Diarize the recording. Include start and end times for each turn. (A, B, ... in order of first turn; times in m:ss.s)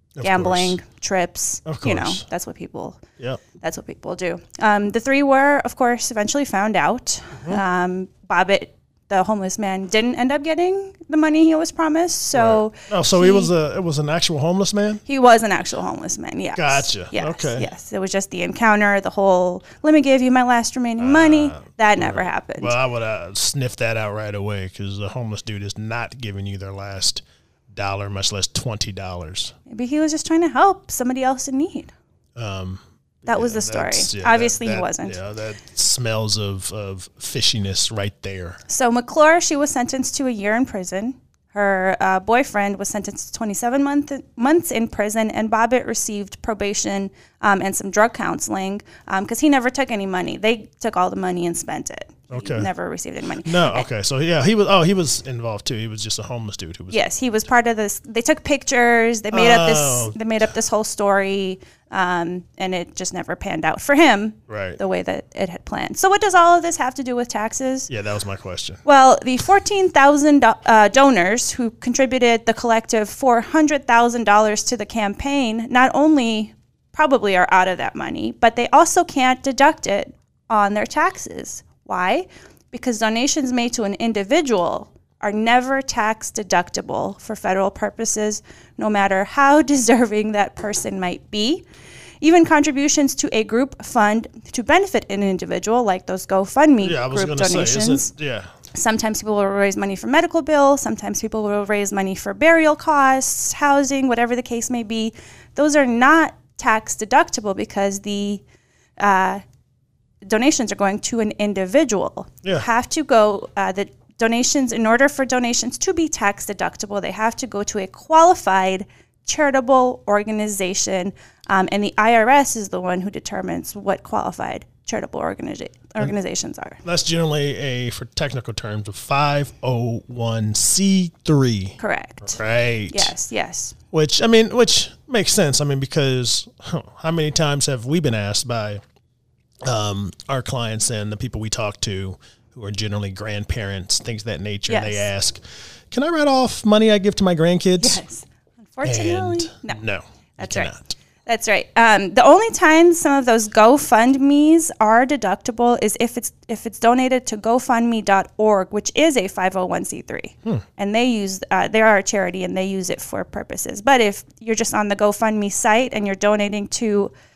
0:00.2-0:00.8 A
0:00.2-0:03.0 B
0:01.6-0:02.2 A
0:03.6-0:13.5 B
0:12.3-0:15.0 A
0:15.1-0:22.7 B
0:16.6-0:17.7 A
0:21.0-0:29.5 A
0:29.7-0:31.9 B
0:32.4-0:38.6 A
0:33.3-0:35.1 B
0:38.7-0:53.8 B
0:52.3-0:52.7 A
0:53.4-0:57.1 A
0:56.9-1:07.9 B
0:59.3-1:00.2 A
1:04.5-1:04.8 A
1:07.9-1:08.8 A
1:08.8-1:31.6 B
1:32.2-1:38.1 B
1:36.8-1:38.5 A
1:38.7-1:48.4 B
1:49.0-1:49.4 B
1:50.3-2:06.8 B
2:06.8-2:13.1 A
2:11.8-2:12.4 B
2:12.9-2:13.8 B
2:13.9-2:18.8 A
2:19.6-2:28.0 A
2:24.7-2:25.1 B
2:27.8-2:29.8 B
2:28.8-2:31.0 A
2:30.4-2:30.7 B
2:31.2-2:47.1 B